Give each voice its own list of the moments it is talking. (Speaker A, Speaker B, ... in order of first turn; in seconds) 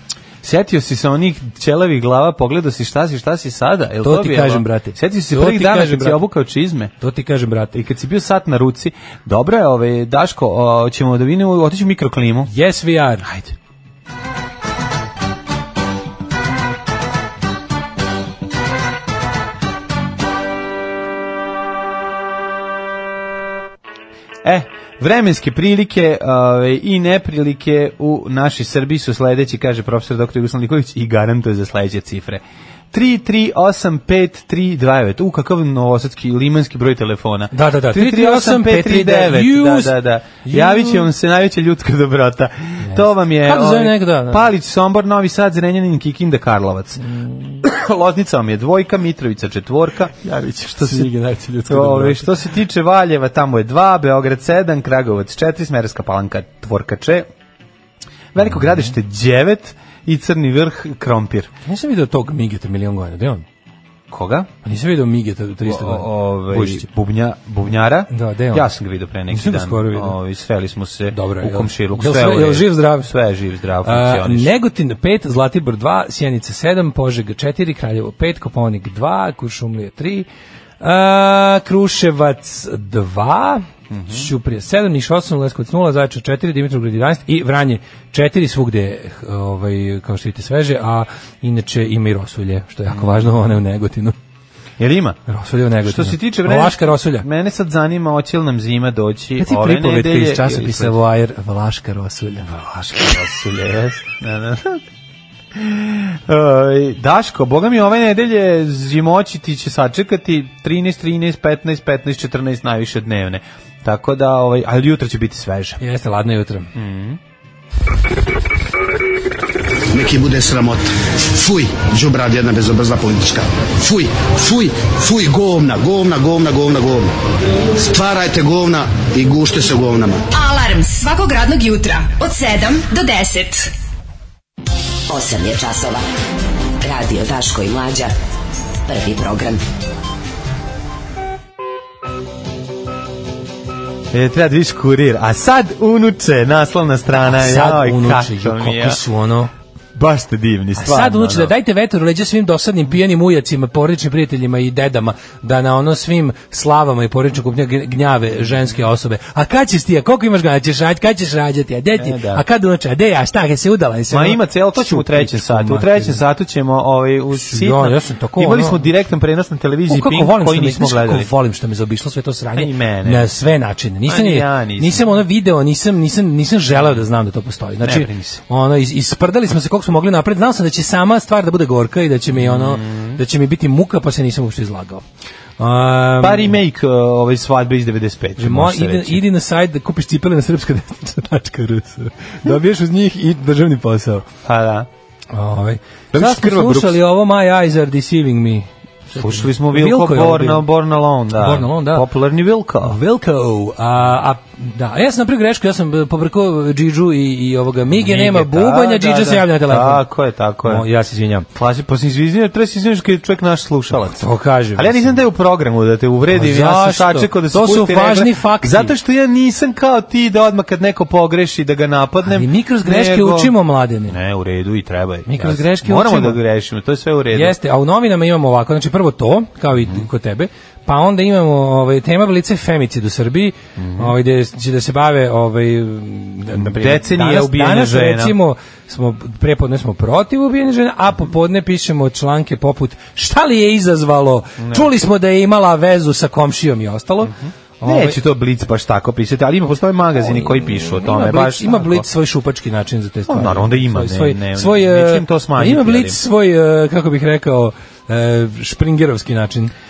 Speaker A: 0.4-6.9, 7.7-12.5, 13.2-13.5, 24.4-47.0, 47.6-51.1, 51.7-57.3, 58.3-61.5, 64.1-64.5, 65.6-74.5, 83.9-84.3, 92.9-93.2, 94.8-95.2, 95.8-100.9, 102.4-104.8, 105.5-115.8, 116.7-117.2, 144.1-149.0, 149.9-151.5, 162.0-162.4, 164.1-171.3, 172.6-173.3, 174.1-175.1, 176.8-177.0, 177.8-178.4, 182.3-183.2, 186.2-189.2, 194.4-194.9, 196.1-197.0, 199.2-203.0, 207.9-210.8, 211.5-214.2, 214.7-223.6, 224.1-227.6, 233.8-234.1, 236.5-238.3, 244.6-244.9, 247.2-252.1, 253.3-256.2
Speaker B: 4.0-6.2, 7.0-7.8, 12.5-13.3, 37.5-41.1, 42.8-44.4, 47.0-47.6, 50.2-52.3, 61.6-63.4, 64.6-66.8, 68.1-68.7, 69.3-70.2, 71.1-73.1, 73.8-80.3, 80.8-94.1, 95.3-97.2, 99.4-102.5, 115.8-116.7, 147.2-149.5, 150.8-166.2, 167.3-168.8, 169.9-185.0, 185.6-186.6, 188.4-194.2, 195.3-200.7, 201.3-202.1, 202.8-210.1, 210.6-211.5, 214.1-215.2, 216.3-218.9, 222.2-224.2, 225.3-226.4, 227.3-248.2, 250.2-259.7
Speaker C: 119.9-127.1, 127.7-130.2
Speaker D: 130.3-133.7
Speaker E: 135.1-136.0, 136.8-138.1, 138.8-139.6